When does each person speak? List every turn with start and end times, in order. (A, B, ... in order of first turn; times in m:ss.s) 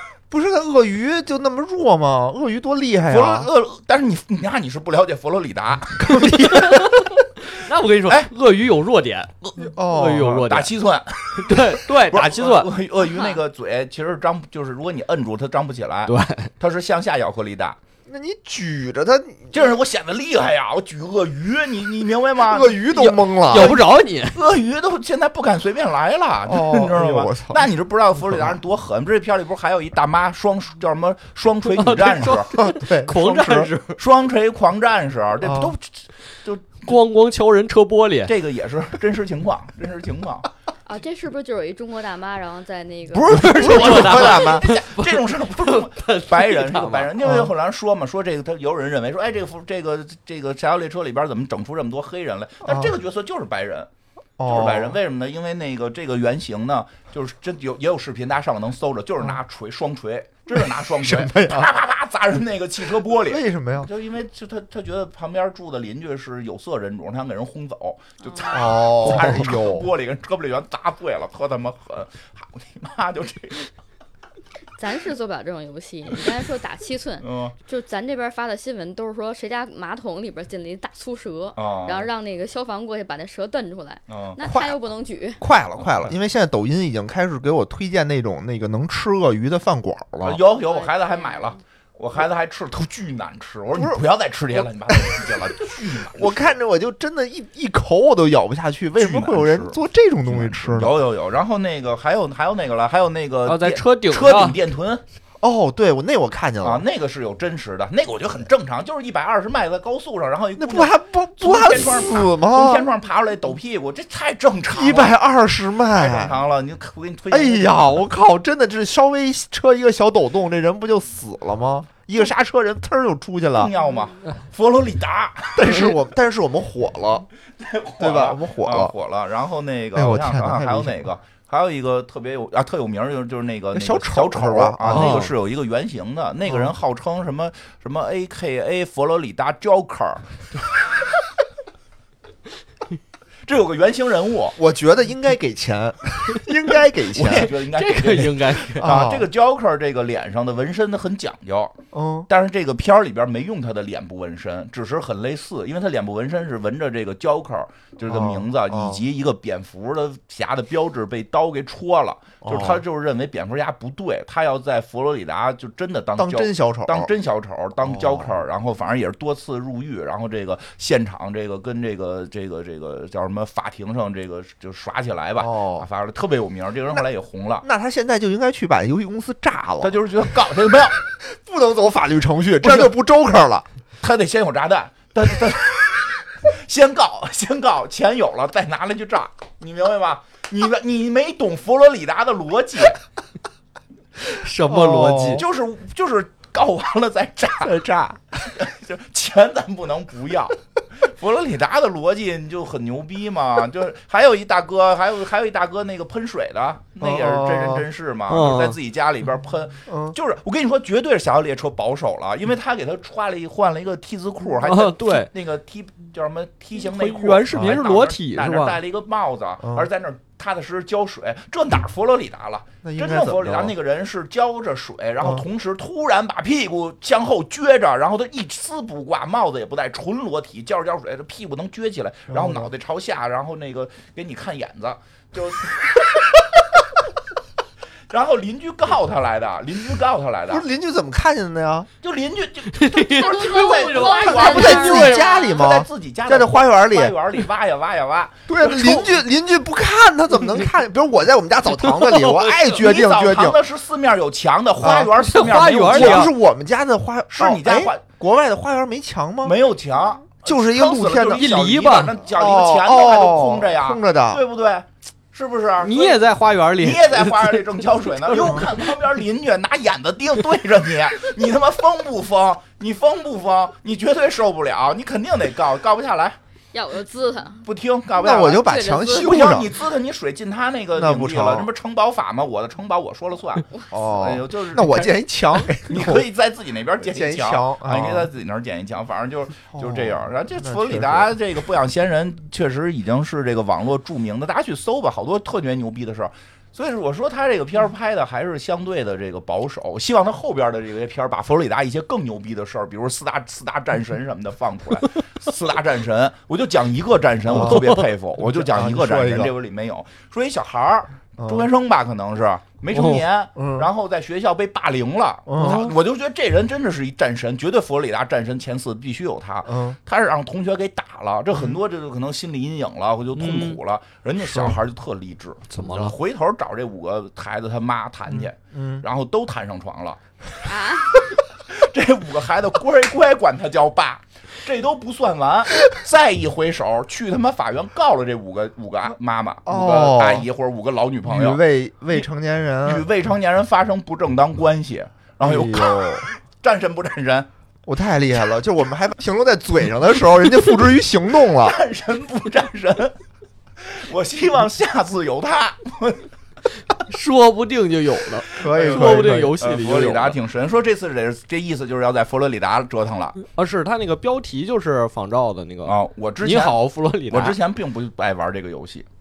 0:00.3-0:03.5 A
0:03.1-0:07.0 B
0:06.1-0:06.4 A
0:06.2-0:10.7 C
0:08.0-0:08.3 B
0:09.6-0:10.4 A
0:10.1-0:17.8 B
0:11.3-0:12.7 C
0:16.1-0:16.5 C
0:18.1-0:19.7 A
0:19.5-0:32.6 B
0:22.4-0:23.8 A
0:22.9-0:24.4 C
0:26.4-0:27.7 A
0:28.3-0:28.5 A
0:31.7-0:34.0 C
0:32.5-0:33.7 A
0:33.9-0:36.9 B
0:35.4-0:35.7 A
0:36.8-0:38.3 C
0:38.2-0:40.5 B
0:40.8-0:43.7 D
0:43.1-0:44.7 A
0:43.2-0:47.2 C
0:43.6-0:53.9 B
0:47.2-0:47.5 A
0:52.6-0:52.9 A
0:54.4-0:55.0 A
0:54.4-1:13.7 B
1:00.5-1:01.7 A
1:03.2-1:03.9 A
1:08.2-1:08.6 D
1:08.5-1:09.9 A
1:14.8-1:25.4 D
1:17.2-1:17.5 B
1:21.6-1:22.1 B
1:24.1-1:24.4 B
1:24.4-1:24.8 A
1:25.4-1:30.4 A
1:25.8-1:26.1 B
1:30.2-1:36.3 B
1:30.5-1:31.6 D
1:33.7-1:34.0 A
1:34.9-1:35.3 A
1:36.1-1:41.0 A
1:39.0-1:45.0 B
1:43.4-1:44.6 C
1:45.4-1:46.8 A
1:46.6-1:55.2 B
1:50.6-1:52.9 A
1:54.7-1:56.4 A
1:55.9-1:58.0 B
1:57.3-2:03.7 A
2:03.5-2:05.8 B
2:05.5-2:07.3 A
2:07.6-2:20.2 B
2:08.0-2:08.9 A
2:09.9-2:11.1 A
2:13.7-2:15.2 A
2:14.9-2:15.3 C
2:23.4-2:24.6 B
2:24.6-2:27.5 A
2:27.1-2:31.8 B
2:27.5-2:28.9 C
2:28.8-2:29.3 A
2:31.9-2:32.3 A
2:32.3-2:57.6 B
2:38.1-2:39.0 A
2:42.4-2:42.8 A
2:46.2-2:47.1 A
2:47.8-2:48.3 A
2:55.4-2:55.9 A
2:57.6-2:59.9 A
2:59.8-3:01.0 B
3:01.2-3:03.6 A
3:02.6-3:03.0 B
3:04.0-3:13.0 B
3:14.3-3:15.4 C
3:14.6-3:15.4 A
3:15.3-3:17.9 B
3:17.6-3:18.2 A
3:18.4-3:56.5 B
3:27.0-3:27.9 A
3:28.3-3:28.8 C
3:29.9-3:30.2 A
3:34.6-3:35.3 C
3:36.8-3:38.8 C
3:39.6-3:39.9 A
3:42.8-3:43.7 A
3:52.3-3:52.7 A
3:58.1-4:00.6 B
4:00.5-4:01.9 A
4:02.0-4:09.2 B
4:02.7-4:05.5 C
4:03.2-4:05.6 D
4:04.3-4:07.2 A
4:08.5-4:13.6 A
4:11.7-4:12.6 C
4:12.4-4:16.3 B
4:14.8-4:15.1 A
4:15.2-4:16.3 C
4:15.9-4:19.6 A
4:17.3-4:18.0 B
4:19.4-4:26.2 B
4:20.4-4:21.5 A
4:21.3-4:22.1 C
4:22.3-4:24.4 A
4:25.8-4:27.6 C
4:26.8-4:36.4 B
4:28.3-4:28.7 A
4:28.3-4:28.6 C
4:36.7-4:37.6 D
4:37.6-4:45.1 B
4:38.2-4:39.7 A
4:38.5-4:39.4 D
4:41.0-4:41.7 A
4:43.7-4:44.2 D
4:43.9-4:46.3 A
4:45.8-5:30.2 B
4:47.0-4:48.3 A
4:49.7-4:51.3 A
5:07.5-5:09.5 A
5:07.6-5:08.0 C
5:11.4-5:11.7 A
5:12.9-5:13.2 C
5:13.6-5:13.9 A
5:15.4-5:15.9 A
5:15.6-5:16.0 C
5:19.6-5:20.0 A
5:21.5-5:21.8 A
5:23.4-5:23.8 C
5:24.4-5:24.8 A
5:25.7-5:26.2 C
5:28.3-5:29.0 A
5:30.6-5:31.2 D
5:31.7-5:42.3 B
5:39.6-5:40.5 A
5:41.2-5:43.1 A
5:42.8-5:47.5 B
5:45.4-5:46.3 A
5:47.8-5:51.8 A
5:51.5-5:53.2 B
5:53.8-5:56.3 B
5:57.1-6:00.4 C
5:58.6-6:03.4 B
5:58.6-5:59.6 A
6:03.4-6:07.6 C
6:05.8-6:06.8 B
6:07.3-6:09.0 B